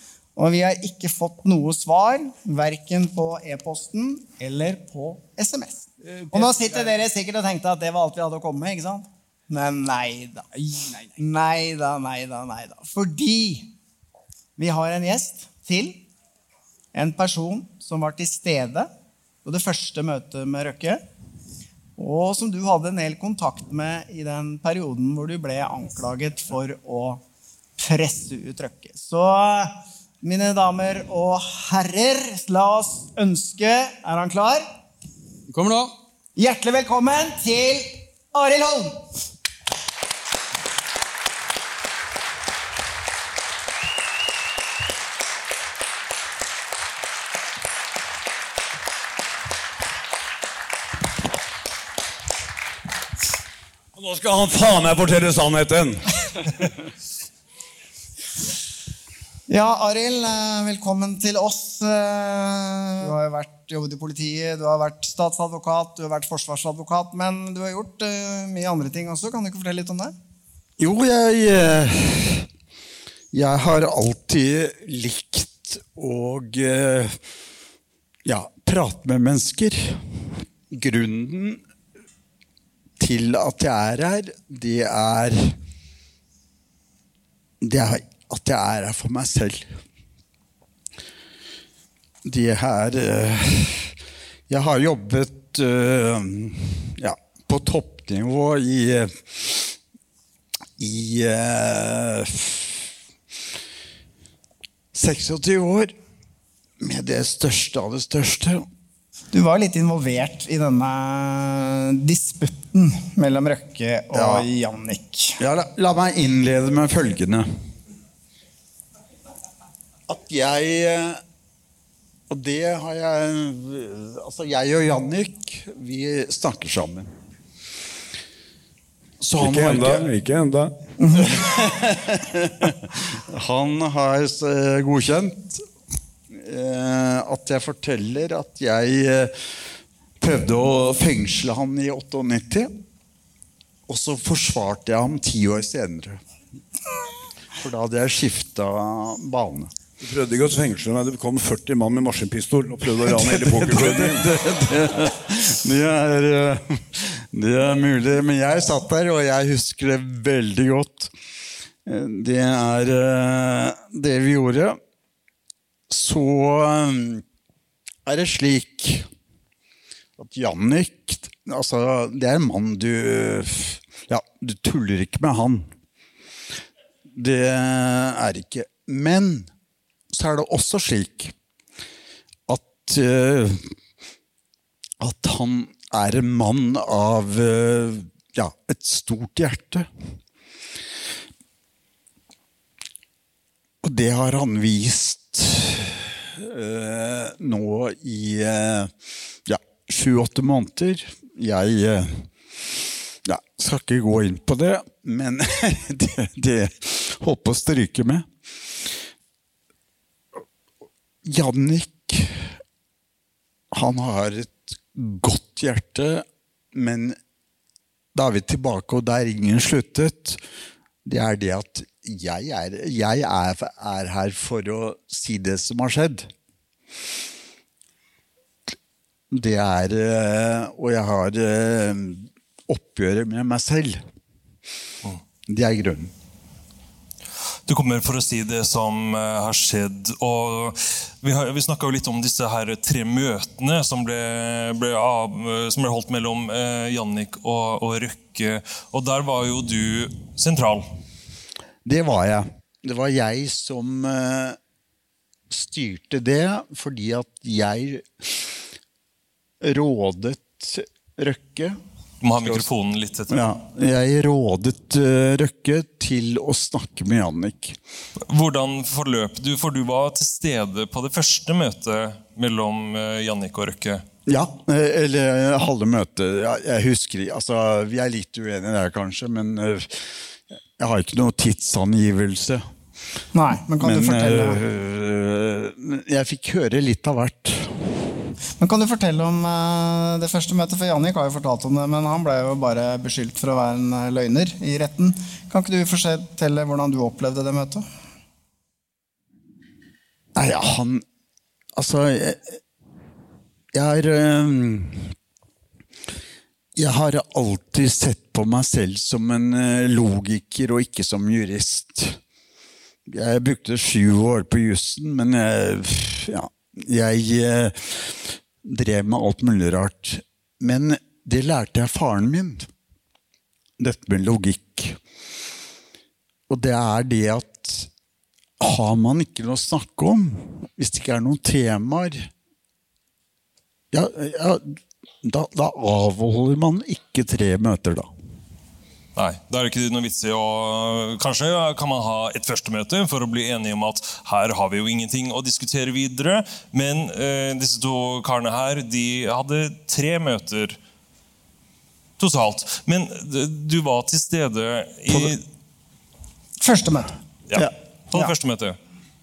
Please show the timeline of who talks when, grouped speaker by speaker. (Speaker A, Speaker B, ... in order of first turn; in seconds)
Speaker A: 0.3-10.5, 11.2-13.7, 14.6-16.0, 16.9-18.9, 19.4-21.0, 22.0-27.2, 27.8-34.6, 36.4-39.0, 59.5-70.1, 109.3-115.4, 283.3-284.6, 288.6-297.8, 356.6-357.1
Speaker B: 6.0-7.0, 10.5-11.2, 35.5-36.0
Speaker C: 53.9-56.1, 129.4-130.7, 150.0-154.3
Speaker D: 70.8-72.5, 73.3-77.2, 78.2-80.0, 80.7-81.6, 83.0-85.6, 87.6-89.7, 92.2-93.9, 94.5-99.7, 100.8-102.8, 104.9-105.9, 106.8-108.7, 114.1-114.5, 115.4-117.5, 120.1-121.2, 122.3-127.1, 129.2-130.1, 131.2-135.6, 136.3-142.8, 143.9-146.2, 147.6-149.7, 152.9-161.1, 161.8-164.8, 165.9-167.2, 168.1-169.1, 170.2-175.7, 177.1-179.5, 180.1-181.3, 182.5-183.7, 185.0-189.9, 193.8-198.9, 199.4-202.3, 203.2-208.3, 211.2-212.5, 213.7-217.2, 218.1-220.4, 221.1-226.3, 229.3-234.0, 235.5-236.1, 251.8-254.6, 255.5-258.6, 259.6-261.8, 262.4-262.6, 263.3-267.8, 274.3-282.6, 283.8-288.0, 300.4-301.0, 301.8-302.6, 303.7-305.1, 306.8-312.2, 313.1-322.7, 323.8-325.0, 326.5-327.9, 328.6-332.3, 333.9-338.1, 355.1-355.3
Speaker E: 237.7-250.8, 262.2-263.4, 268.3-274.0, 339.1-350.8, 352.2-355.4, 357.5-358.8